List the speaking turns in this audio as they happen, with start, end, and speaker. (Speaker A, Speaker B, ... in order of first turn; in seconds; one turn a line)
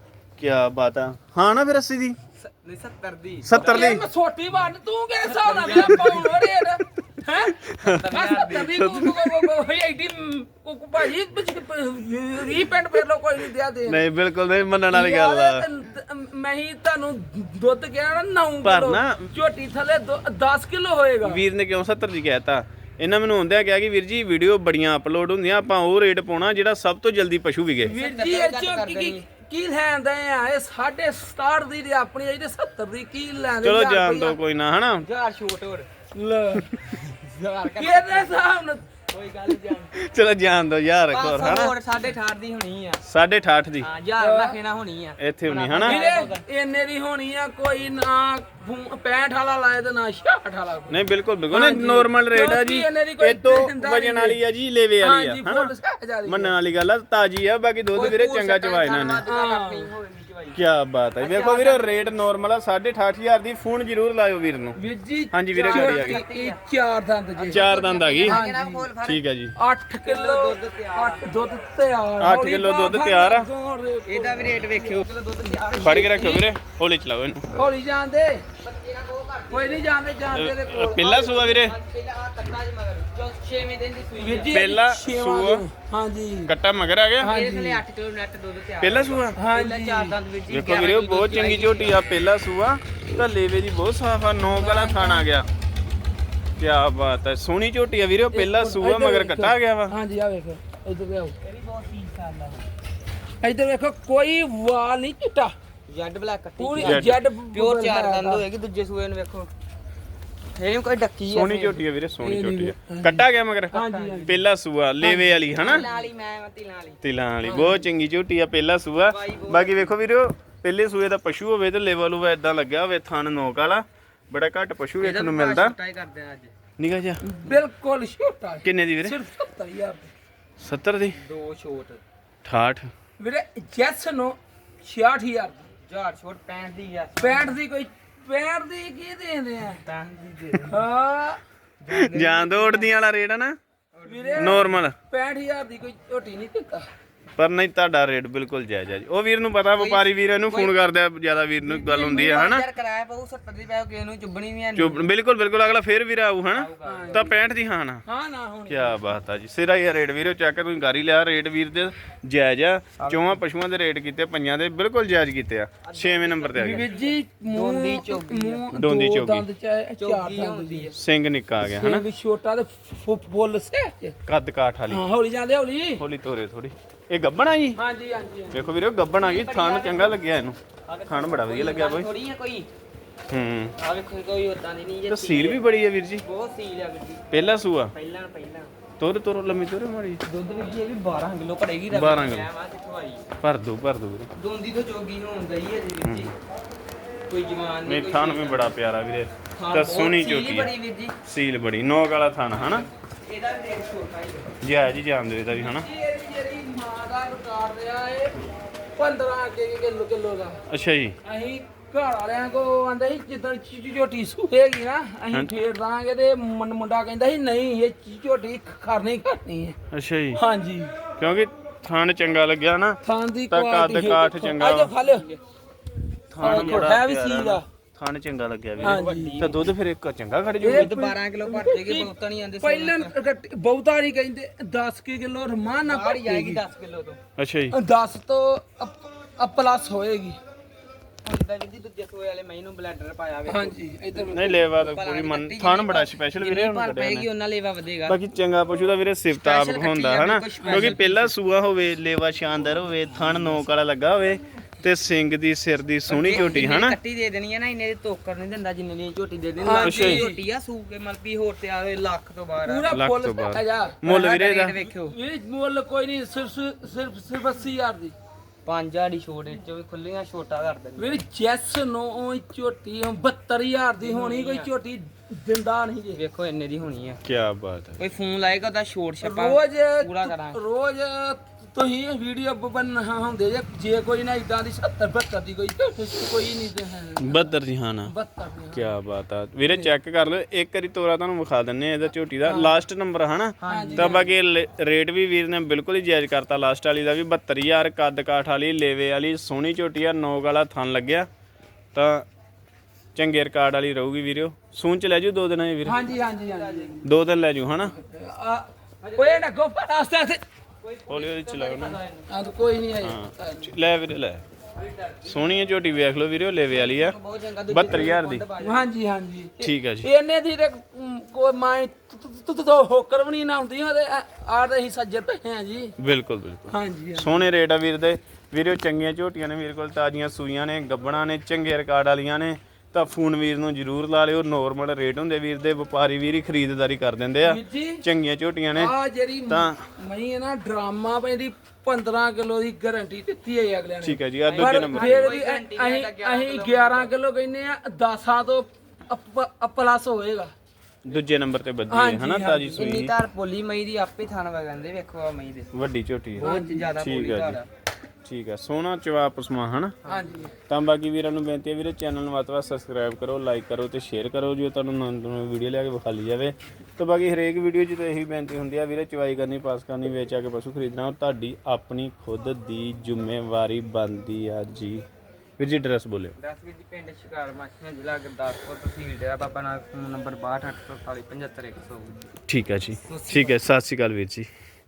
Speaker A: 0.4-2.2
Speaker B: 2.4-4.0
Speaker A: 3.4-4.0
Speaker C: 3.5-14.0
Speaker B: 5.2-6.4
Speaker A: 5.7-6.1
Speaker A: 7.6-8.0
Speaker B: 7.8-8.9
Speaker A: 8.7-9.5
Speaker A: 13.9-15.7
Speaker C: 14.9-21.4
Speaker A: 18.6-19.3
Speaker A: 21.2-27.9
Speaker C: 27.8-34.4
Speaker B: 27.9-29.2
Speaker A: 33.6-35.0
Speaker B: 35.0-35.9
Speaker C: 36.1-37.0
Speaker B: 37.2-38.4
Speaker C: 37.8-38.8
Speaker B: 39.1-39.9
Speaker A: 39.9-41.7
Speaker B: 41.1-43.0
Speaker A: 43.0-43.9
Speaker B: 43.8-46.4
Speaker C: 44.2-44.6
Speaker A: 45.2-46.0
Speaker C: 45.8-51.0
Speaker A: 50.9-55.7
Speaker C: 51.5-54.4
Speaker C: 55.0-56.5
Speaker A: 56.2-59.2
Speaker B: 57.9-60.6
Speaker C: 59.3-59.9
Speaker A: 60.5-64.8
Speaker B: 61.2-62.2
Speaker C: 64.8-67.7
Speaker A: 65.3-66.2
Speaker B: 65.5-66.6
Speaker B: 67.3-69.2
Speaker A: 67.5-68.4
Speaker C: 68.2-68.8
Speaker A: 69.0-69.5
Speaker C: 69.5-76.5
Speaker B: 70.0-71.5
Speaker A: 72.2-73.5
Speaker B: 74.0-76.5
Speaker A: 75.8-77.7
Speaker C: 77.5-78.4
Speaker B: 78.6-79.8
Speaker C: 79.5-81.2
Speaker A: 80.3-81.7
Speaker B: 81.0-84.7
Speaker C: 84.2-86.5
Speaker A: 84.5-85.6
Speaker A: 86.5-87.3
Speaker C: 87.2-87.8
Speaker B: 87.2-92.2
Speaker A: 88.8-89.4
Speaker C: 89.3-90.2
Speaker A: 90.5-95.5
Speaker B: 94.6-95.1
Speaker C: 94.6-95.2
Speaker A: 96.6-99.9
Speaker C: 98.3-101.3
Speaker B: 101.4-102.7
Speaker C: 103.4-105.5
Speaker B: 105.9-109.5
Speaker C: 106.6-108.4
Speaker A: 106.8-107.2
Speaker B: 110.5-111.8
Speaker A: 111.3-113.7
Speaker C: 112.2-114.3
Speaker B: 113.7-114.4
Speaker A: 114.2-115.9
Speaker B: 115.0-117.8
Speaker C: 115.1-116.0
Speaker A: 117.0-125.7
Speaker B: 119.0-119.9
Speaker B: 125.0-126.5
Speaker A: 126.8-127.2
Speaker C: 127.2-130.1
Speaker A: 128.6-129.2
Speaker A: 130.6-131.2
Speaker B: 131.2-132.0
Speaker A: 132.4-132.9
Speaker C: 133.2-135.7
Speaker B: 135.9-137.6
Speaker C: 137.2-139.8
Speaker B: 139.6-140.8
Speaker C: 140.7-141.4
Speaker B: 141.8-142.9
Speaker A: 141.9-143.6
Speaker B: 143.9-144.8
Speaker C: 144.1-146.9
Speaker A: 144.4-144.9
Speaker A: 147.4-152.6
Speaker B: 149.7-150.7
Speaker B: 151.6-155.0
Speaker A: 154.7-158.0
Speaker B: 156.5-157.3
Speaker C: 156.8-157.3
Speaker C: 158.1-159.0
Speaker A: 158.7-166.9
Speaker B: 163.0-163.4
Speaker B: 165.8-168.7
Speaker C: 166.6-170.9
Speaker A: 168.7-169.4
Speaker B: 170.0-171.0
Speaker A: 170.9-172.0
Speaker C: 171.7-174.2
Speaker A: 174.2-175.1
Speaker C: 174.9-176.0
Speaker A: 176.0-177.8
Speaker C: 177.8-178.7
Speaker A: 178.5-182.1
Speaker B: 179.2-180.2
Speaker B: 180.9-182.7
Speaker A: 183.3-183.7
Speaker B: 183.8-185.6
Speaker A: 185.1-186.2
Speaker B: 186.2-187.3
Speaker A: 187.3-187.9
Speaker B: 187.9-188.7
Speaker A: 189.0-190.2
Speaker B: 190.2-193.2
Speaker A: 191.9-192.5
Speaker A: 193.4-194.3
Speaker B: 194.3-196.3
Speaker A: 196.0-196.3
Speaker B: 197.3-198.8
Speaker A: 197.8-200.7
Speaker B: 199.5-201.2
Speaker A: 201.3-202.8
Speaker B: 202.5-204.5
Speaker A: 204.6-205.9
Speaker C: 205.5-210.6
Speaker A: 210.7-211.1
Speaker C: 211.2-219.8
Speaker A: 219.9-220.4
Speaker C: 220.3-220.9
Speaker A: 221.2-224.9
Speaker C: 223.0-225.3
Speaker B: 225.0-225.4
Speaker A: 226.3-230.9
Speaker B: 226.4-227.0
Speaker C: 226.4-227.6
Speaker B: 228.8-229.7
Speaker C: 228.8-229.4
Speaker C: 230.6-232.1
Speaker B: 230.7-233.1
Speaker C: 232.6-236.6
Speaker B: 235.8-237.2
Speaker A: 237.4-237.8
Speaker C: 237.7-240.4
Speaker B: 241.2-243.8
Speaker C: 243.5-244.7
Speaker A: 244.3-247.3
Speaker B: 244.8-248.2
Speaker A: 248.1-256.9
Speaker B: 249.3-251.3
Speaker C: 250.6-251.0
Speaker B: 256.1-263.0
Speaker C: 259.6-260.4
Speaker A: 259.8-260.2
Speaker C: 262.6-268.1
Speaker A: 262.9-264.7
Speaker B: 264.1-265.1
Speaker B: 268.6-271.2
Speaker C: 271.0-276.2
Speaker B: 274.0-274.7
Speaker B: 276.1-277.2
Speaker A: 277.2-278.0
Speaker B: 278.0-280.6
Speaker C: 279.2-287.5
Speaker A: 287.2-288.1
Speaker C: 288.1-288.9
Speaker A: 288.7-301.3
Speaker C: 292.4-292.8
Speaker B: 293.6-294.3
Speaker C: 293.6-294.2
Speaker A: 301.9-302.3
Speaker A: 303.1-306.1
Speaker C: 305.8-307.0
Speaker B: 306.1-307.1
Speaker A: 307.0-307.9
Speaker C: 308.0-310.4
Speaker B: 309.0-309.5
Speaker B: 310.8-312.5
Speaker A: 311.1-312.0
Speaker C: 312.3-313.7
Speaker A: 313.0-314.4
Speaker B: 314.8-315.5
Speaker A: 315.2-317.1
Speaker B: 316.7-318.9
Speaker A: 317.7-318.4
Speaker C: 318.6-325.9
Speaker A: 319.6-320.1
Speaker A: 326.0-338.9
Speaker C: 326.7-327.4
Speaker C: 337.4-338.0
Speaker C: 338.8-350.5
Speaker A: 339.5-339.8
Speaker A: 344.0-345.3
Speaker B: 344.4-347.1
Speaker A: 351.0-353.1
Speaker C: 351.9-352.9
Speaker B: 352.7-355.7
Speaker A: 355.7-357.6
Speaker B: 356.4-357.6
Speaker C: 356.4-356.9
Speaker A: 358.2-359.9
Speaker B: 360.0-360.4
Speaker C: 360.1-360.5
Speaker A: 360.7-375.0
Speaker A: 375.6-376.3
Speaker B: 376.4-382.3
Speaker A: 382.5-384.5
Speaker B: 383.1-383.6